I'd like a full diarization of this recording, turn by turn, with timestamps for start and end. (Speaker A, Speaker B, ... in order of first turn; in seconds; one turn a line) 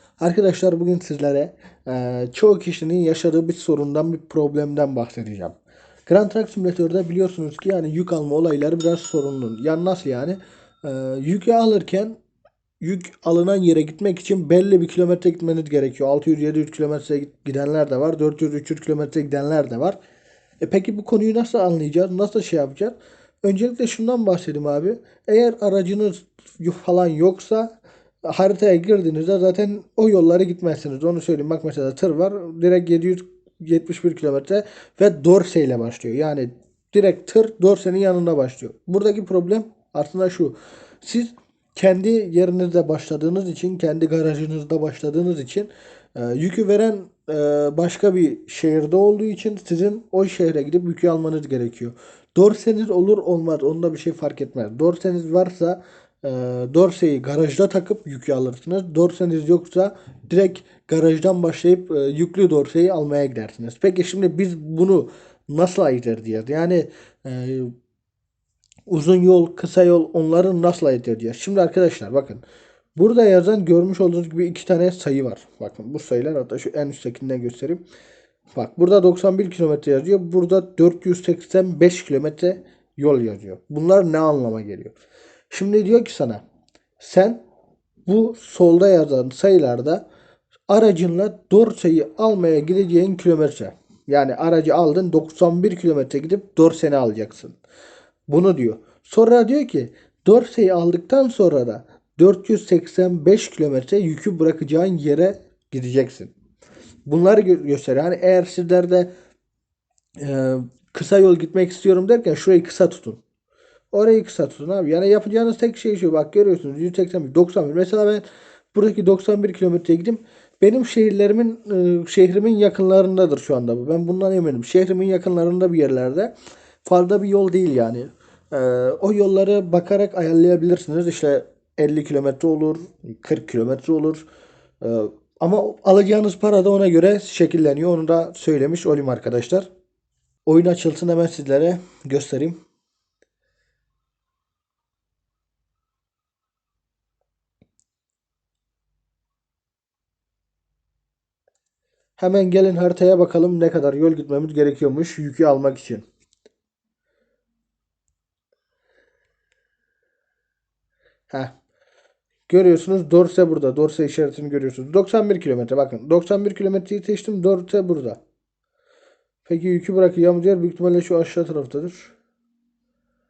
Speaker A: 0.2-5.6
Speaker A: 6.1-12.2
Speaker A: 12.8-20.0
Speaker A: 20.6-67.7
Speaker A: 68.9-72.4
Speaker A: 73.0-77.8
Speaker A: 78.5-85.0
Speaker A: 85.5-86.4
Speaker A: 87.0-87.4
Speaker A: 88.1-90.0
Speaker A: 90.7-97.6
Speaker A: 98.3-106.3
Speaker A: 107.1-109.1
Speaker A: 110.2-113.2
Speaker A: 113.9-126.3
Speaker A: 126.8-134.3
Speaker A: 134.8-139.7
Speaker A: 140.5-142.6
Speaker A: 152.2-156.1
Speaker A: 162.5-168.2
Speaker A: 169.4-172.1